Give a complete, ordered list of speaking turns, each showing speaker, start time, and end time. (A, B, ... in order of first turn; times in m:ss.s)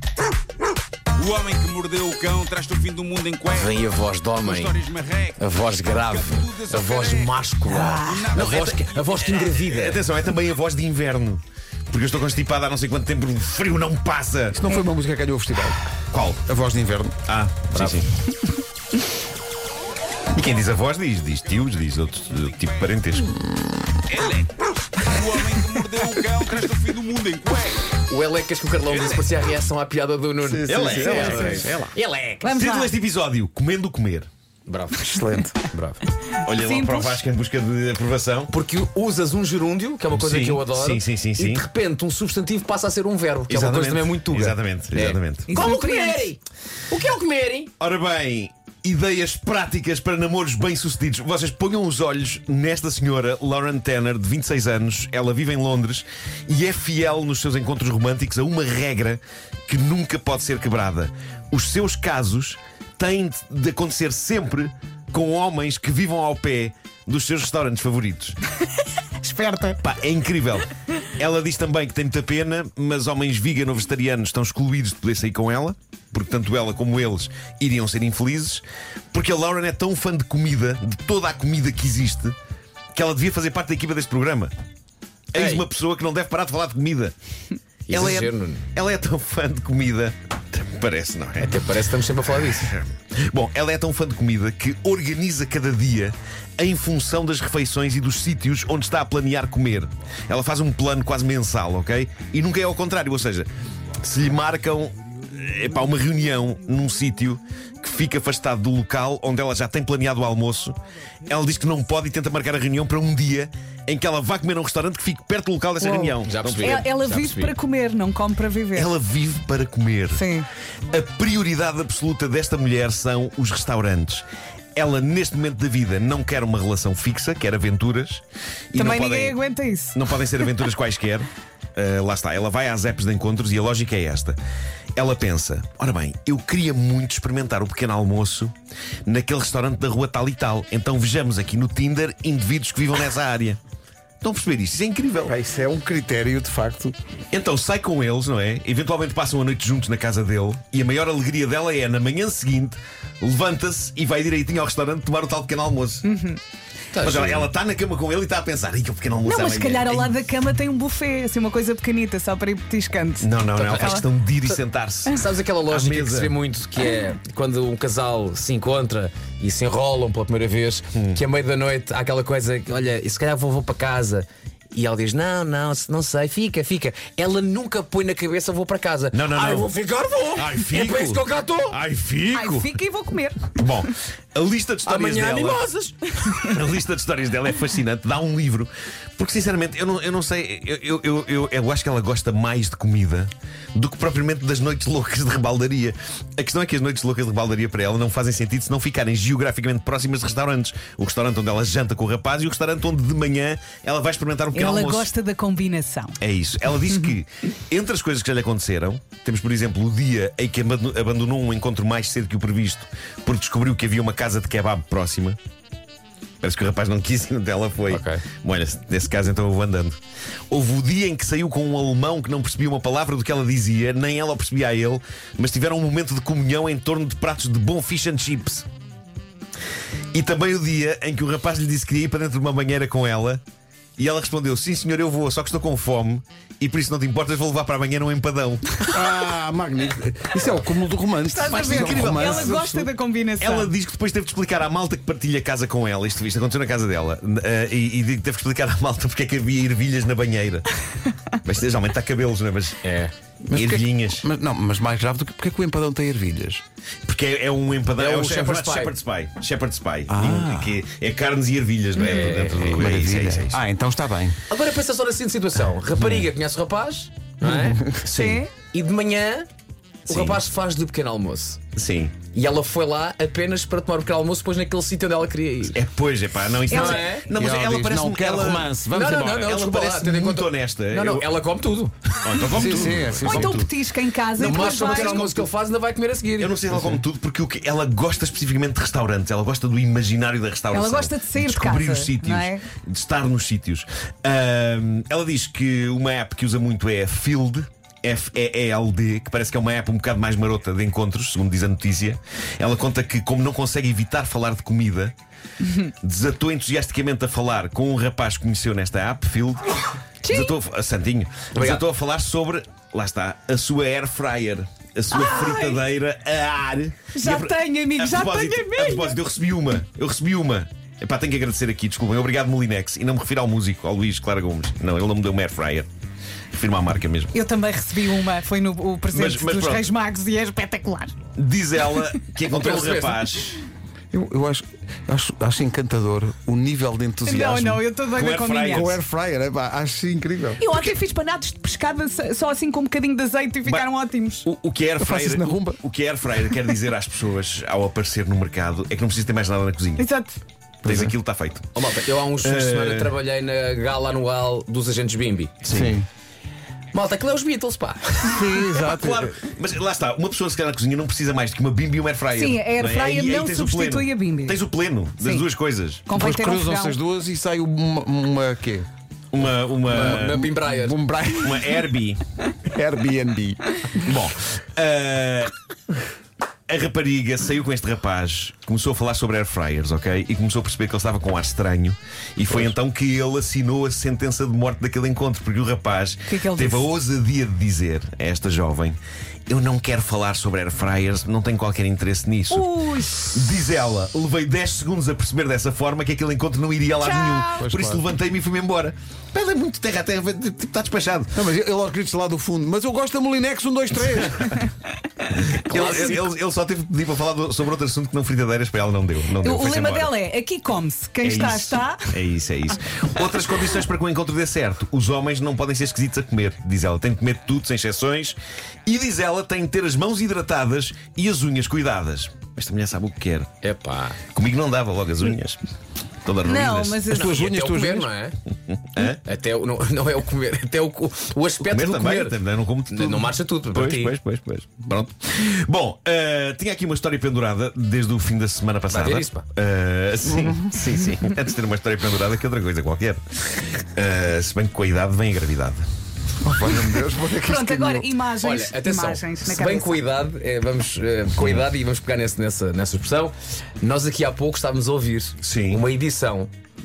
0:01.2-0:03.4 A
0:03.5-0:04.8 B
0:04.5-0:05.3 A
0:05.4-0:10.0 B
0:06.1-0:07.3 A
0:07.7-0:08.3 C
0:08.3-0:14.6 D
0:14.5-0:15.8 E
0:16.1-0:16.4 D
0:16.4-0:17.2 E
0:17.2-0:18.1 D
0:17.7-0:18.0 B
0:20.3-0:23.4 D
0:24.1-0:24.5 A
0:25.1-0:27.8 A
0:28.1-0:32.6 B
0:30.4-0:31.9 E
0:30.6-0:31.6 D
0:32.4-0:32.9 C
0:32.5-0:34.3 D
0:34.6-0:35.2 B
0:35.0-0:35.6 E
0:35.7-0:36.0 B
0:36.4-0:38.5 D
0:36.5-0:37.2 C
0:38.5-0:46.4 B
0:40.1-0:41.7 D
0:43.5-0:45.5 D
0:45.5-0:46.3 C
0:46.9-0:47.7 B
0:47.8-1:08.4 D
1:09.2-1:09.8 C
1:09.8-1:22.3 D
1:22.9-1:24.5 D
1:25.3-1:27.1 D
1:25.4-1:25.6 B
1:27.9-1:28.6 B
1:27.9-1:31.6 D
1:31.4-1:32.7 B
1:32.6-1:43.5 D
1:44.0-1:56.9 D
1:55.8-1:58.9 C
1:56.2-1:57.6 B
1:58.7-2:00.2 D
2:00.1-2:00.5 C
2:00.9-2:09.4 D
2:08.7-2:10.0 C
2:09.9-2:14.4 D
2:15.0-2:18.5 D
2:19.0-2:23.6 D
2:24.2-2:25.3 D
2:25.2-2:26.9 E
2:27.3-2:36.0 D
2:36.0-2:36.4 C
2:36.9-2:37.5 B
2:37.0-2:40.2 D
2:39.2-2:44.0 C
2:43.2-2:46.3 D
2:43.6-2:44.0 B
2:45.1-3:01.8 B
2:50.9-2:51.2 D
2:59.1-2:59.7 D
3:00.4-3:02.8 D
3:02.3-3:03.5 C
3:03.5-3:05.6 D
3:04.8-3:06.2 B
3:06.3-3:25.1 D
3:24.5-3:26.2 C
3:26.2-3:35.4 D
3:36.4-3:40.0 D
3:37.9-3:38.2 B
3:40.5-3:48.7 D
3:50.1-3:53.4 D
3:54.0-3:58.9 D
3:58.9-4:02.8 E
4:01.3-4:03.7 C
4:01.4-4:02.7 D
4:03.4-4:10.7 D
4:11.4-4:12.8 D
4:12.8-4:13.1 B
4:13.4-4:16.6 E
4:13.5-4:14.2 D
4:17.0-4:23.6 D
4:18.0-4:19.0 B
4:20.1-4:20.8 E
4:22.0-4:22.3 C
4:22.0-4:22.8 B
4:22.7-4:24.4 E
4:24.5-4:29.5 B
4:26.0-4:26.3 D
4:28.1-4:28.5 C
4:28.1-4:28.4 D
4:30.0-4:31.6 B
4:30.1-4:30.4 D
4:31.7-4:32.2 D
4:32.3-4:35.8 B
4:35.7-4:38.8 D
4:36.7-4:37.1 C
4:36.7-4:37.3 B
4:37.3-4:39.5 E
4:38.9-4:41.9 B
4:39.4-4:41.3 D
4:42.2-4:43.7 D
4:42.5-4:43.7 E
4:43.2-4:45.2 C
4:44.4-4:46.8 B
4:44.4-4:45.5 E
4:45.0-4:45.3 D
4:46.4-5:05.1 D
4:50.7-4:52.6 C
5:06.0-5:25.9 D
5:10.2-5:10.5 C
5:11.5-5:11.8 B
5:15.1-5:15.8 C
5:17.1-5:19.2 C
5:26.5-5:27.4 D
5:27.3-5:31.1 C
5:29.1-5:29.9 D
5:31.4-5:33.6 D
5:32.5-5:33.2 B
5:34.1-5:37.8 E
5:37.2-5:38.9 C
5:38.1-5:39.0 D
5:38.7-5:40.6 E
5:40.6-5:44.4 C
5:44.4-5:50.0 D
5:45.0-5:45.8 E
5:50.0-5:50.4 C
5:50.8-5:51.8 D
5:50.8-5:51.1 E
5:51.7-5:55.6 B
5:52.4-5:53.1 D
5:55.6-5:56.0 D
5:55.7-5:56.0 E
5:56.9-5:58.7 B
5:58.2-5:59.3 E
5:58.8-6:06.0 D
6:02.3-6:04.6 C
6:05.2-6:05.5 C
6:06.1-6:07.0 C
6:06.1-6:08.9 E
6:09.3-6:10.5 D
6:09.9-6:11.0 B
6:10.5-6:11.8 E
6:11.4-6:12.2 D
6:12.6-6:13.8 E
6:14.0-6:15.5 D
6:16.7-6:32.7 D
6:26.3-6:26.8 C
6:32.5-6:33.5 C
6:33.2-6:41.4 D
6:37.0-6:37.5 C
6:37.6-6:38.0 E
6:41.3-6:44.6 E
6:45.4-6:50.1 D
6:45.7-6:46.3 B
6:49.3-6:52.0 C
6:51.2-7:03.5 D
7:03.6-7:04.2 B
7:04.3-7:05.6 D
7:06.2-7:07.2 D
7:06.4-7:07.3 C
7:07.1-7:08.1 E
7:07.1-7:08.4 B
7:08.7-7:09.2 D
7:09.0-7:14.1 B
7:11.6-7:25.8 D
7:18.9-7:19.4 B
7:26.4-7:28.1 E
7:27.3-7:30.0 C
7:28.4-7:36.5 B
7:31.4-7:31.7 D
7:35.4-7:35.8 D